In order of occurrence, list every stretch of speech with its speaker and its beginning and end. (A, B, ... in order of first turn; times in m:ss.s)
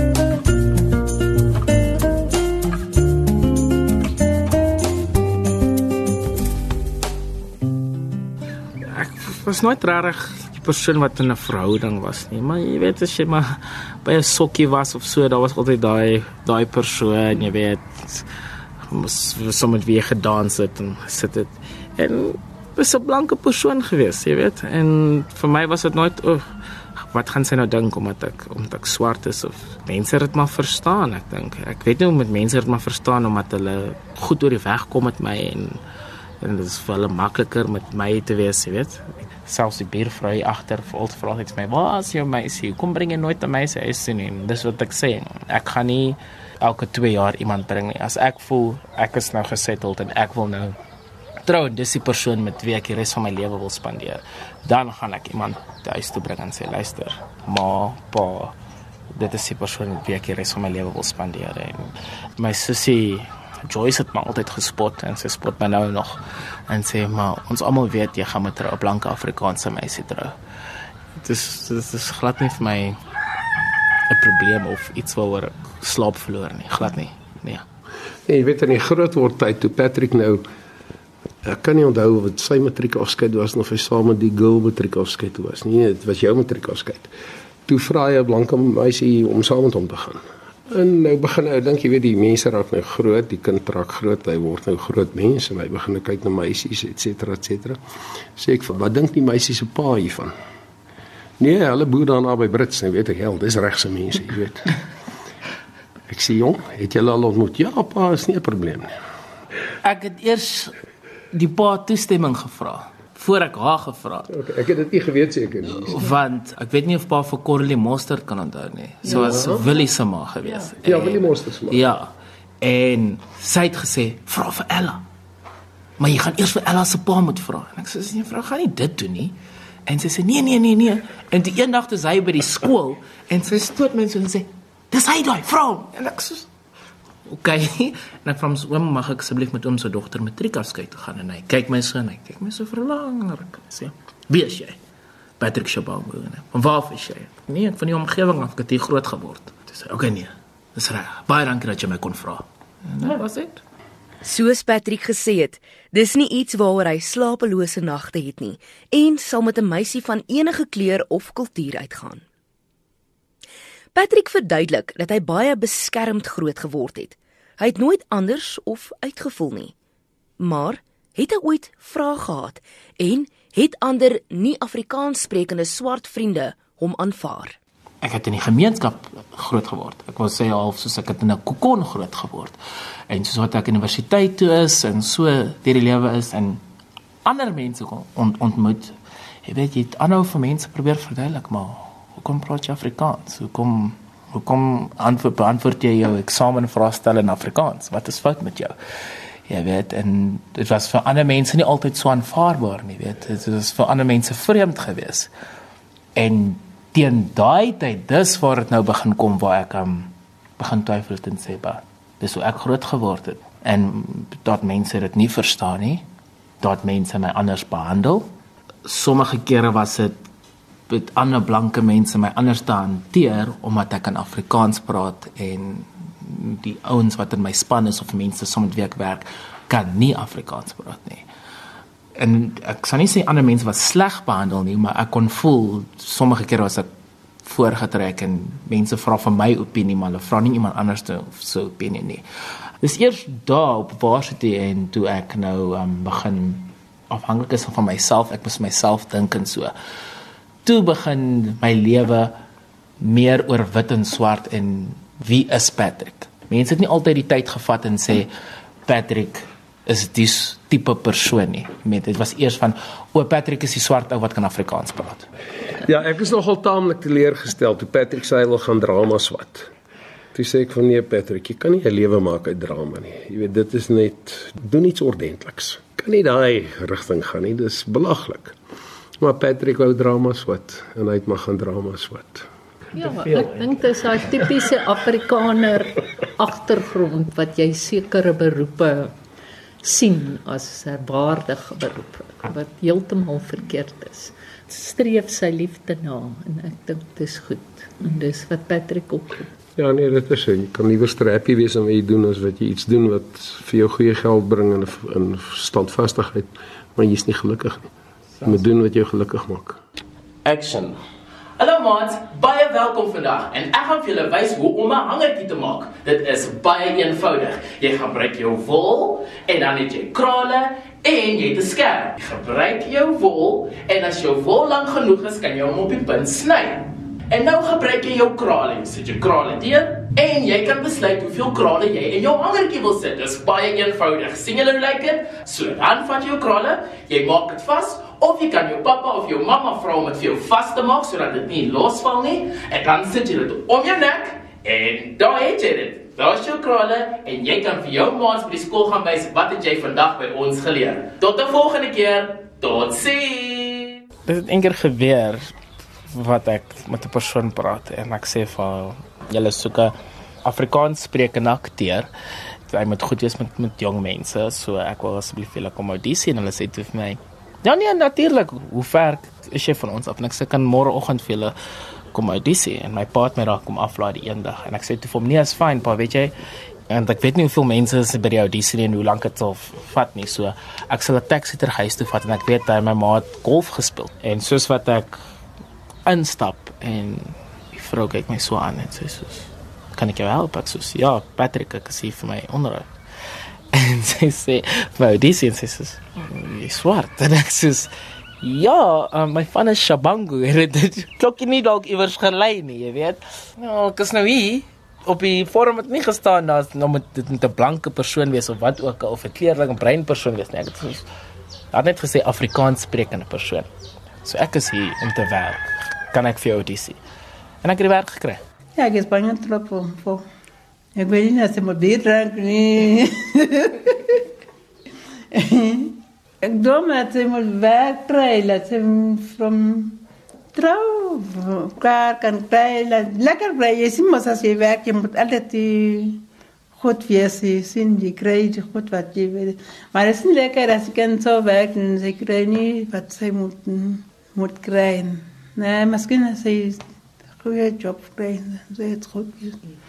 0:08.8-0:18.3 A
0:18.8-0:35.8 A
0:36.4-0:50.8 A
0:51.4-0:58.5 A
0:59.1-1:10.4 A
1:11.2-1:13.0 A
1:14.1-1:17.6 A
1:18.3-1:20.4 B
1:21.4-1:27.1 B
1:27.7-1:37.8 B
1:38.4-1:40.3 B
1:41.4-1:44.7 B
1:46.1-1:48.9 B
1:49.8-1:50.7 A
1:51.3-1:54.3 A
1:54.3-1:56.0 B
1:55.7-2:02.1 A
1:59.1-1:59.7 B
2:00.7-2:01.9 B
2:02.6-2:05.0 A
2:06.0-2:09.4 A
2:09.9-2:16.5 A
2:17.3-2:24.8 A
2:25.4-2:33.6 A
2:34.2-2:42.2 C
2:43.9-2:49.7 C
2:50.4-2:57.6 C
2:58.0-3:02.6 A
3:03.1-3:06.6 A
3:07.2-3:18.8 A
3:19.5-3:25.3 A
3:26.2-3:36.0 A
3:36.6-3:38.3 A
3:38.8-3:40.2 A
3:40.9-3:51.2 A
3:52.2-3:56.9 A
3:57.4-4:02.2 A
4:02.8-4:09.7 A
4:10.6-4:12.4 A
4:13.0-4:18.3 A
4:18.9-4:25.3 A
4:25.8-4:29.7 B
4:30.3-4:38.6 B
4:39.2-4:42.5 B
4:43.0-4:49.1 D
4:43.0-4:43.8 A
4:49.8-4:59.5 D
4:59.8-5:07.9 B
5:08.4-5:09.8 B
5:10.4-5:11.0 A
5:11.6-5:55.5 A
5:56.1-6:02.1 A
6:02.7-6:11.6 A
6:12.1-6:16.3 A
6:16.9-6:25.2 A
6:26.1-6:32.9 A
6:33.7-6:51.1 A
6:51.7-6:53.7 A
6:54.2-6:57.0 A
6:57.6-6:58.4 A
6:58.8-7:00.2 E
7:01.0-7:04.3 E
7:05.3-7:10.0 E
7:10.5-7:16.2 E
7:16.8-7:26.8 E
7:27.4-7:29.6 E